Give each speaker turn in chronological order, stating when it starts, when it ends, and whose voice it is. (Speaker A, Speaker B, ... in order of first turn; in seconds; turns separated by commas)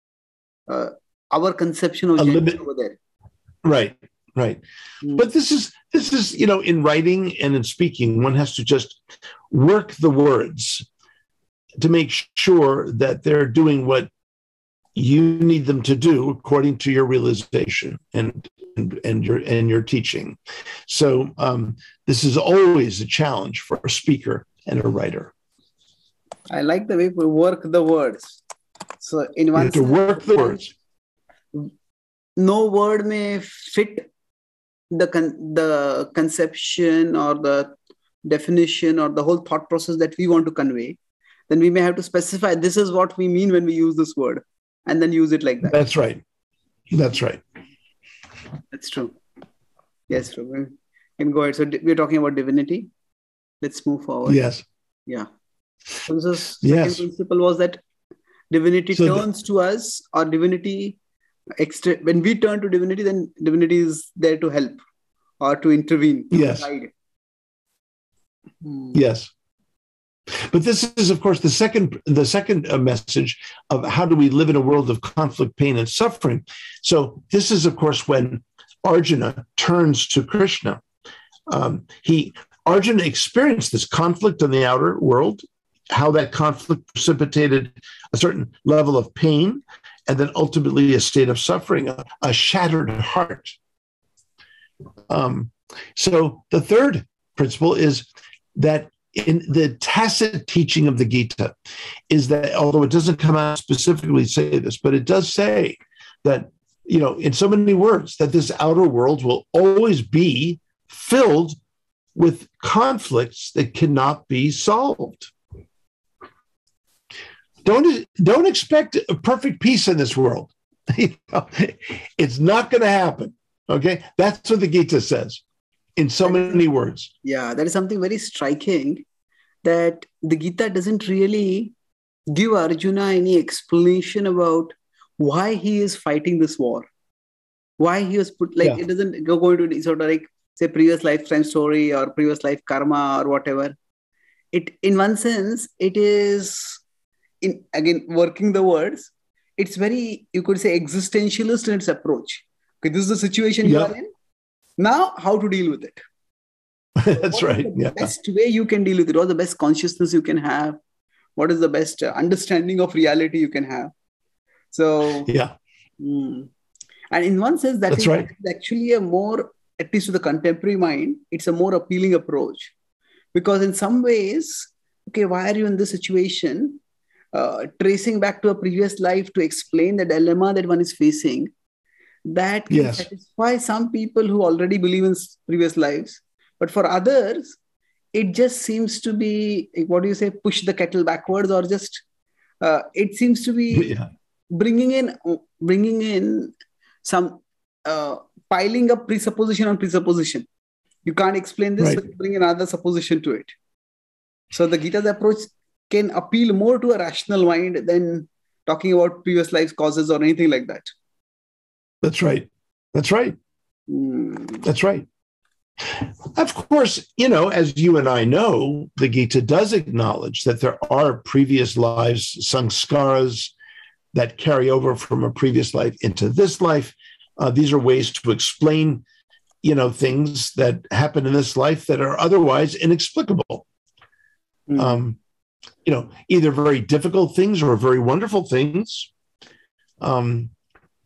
Speaker A: 0.7-3.0, Speaker B: 2.2-2.6, Speaker B: 3.6-4.6, Speaker B: 5.1-10.9, Speaker B: 11.8-14.1, Speaker B: 14.9-25.3, Speaker A: 26.5-28.4, Speaker A: 29.0-30.7, Speaker B: 29.6-30.7, Speaker A: 32.4-34.0, Speaker A: 34.9-37.7, Speaker A: 38.2-41.0, Speaker A: 41.5-45.8, Speaker B: 45.7-46.2, Speaker B: 46.9-47.4, Speaker A: 48.7-49.2, Speaker A: 50.1-52.9, Speaker A: 53.6-54.4, Speaker B: 54.2-54.6, Speaker A: 56.0-57.8, Speaker B: 56.6-57.0, Speaker A: 58.5-61.0, Speaker B: 58.9-59.2, Speaker A: 61.6-64.8, Speaker A: 65.4-66.9, Speaker B: 66.3-66.7, Speaker A: 68.6-69.0, Speaker B: 68.9-69.3, Speaker B: 70.3-80.8, Speaker B: 81.5-93.6, Speaker B: 95.1-101.5, Speaker B: 102.1-111.6, Speaker B: 112.1-115.3, Speaker B: 117.6-125.4, Speaker B: 126.0-127.1, Speaker A: 126.2-126.6, Speaker A: 127.2-129.0, Speaker A: 129.6-131.7, Speaker A: 132.3-136.9, Speaker A: 137.8-143.7, Speaker A: 144.5-146.8, Speaker A: 147.4-154.1, Speaker B: 153.6-153.9, Speaker A: 154.8-156.0, Speaker B: 157.0-158.1, Speaker A: 157.1-160.8, Speaker A: 161.4-163.9, Speaker A: 164.7-165.3, Speaker B: 165.2-165.5, Speaker A: 166.0-166.5, Speaker A: 167.1-172.7, Speaker B: 167.9-168.3, Speaker A: 173.3-176.8, Speaker A: 177.3-181.5, Speaker A: 182.2-187.6, Speaker B: 182.7-183.1, Speaker A: 188.1-192.0, Speaker A: 192.6-193.9, Speaker B: 193.7-194.1, Speaker A: 194.5-196.5, Speaker A: 197.0-200.5, Speaker A: 201.1-203.6, Speaker A: 204.5-210.9, Speaker B: 212.0-213.4, Speaker A: 213.9-214.7, Speaker B: 214.6-215.1, Speaker B: 215.8-223.5, Speaker B: 224.1-229.0, Speaker B: 229.6-233.6, Speaker A: 234.7-235.0, Speaker B: 234.8-235.2, Speaker B: 235.8-239.1, Speaker B: 240.0-240.5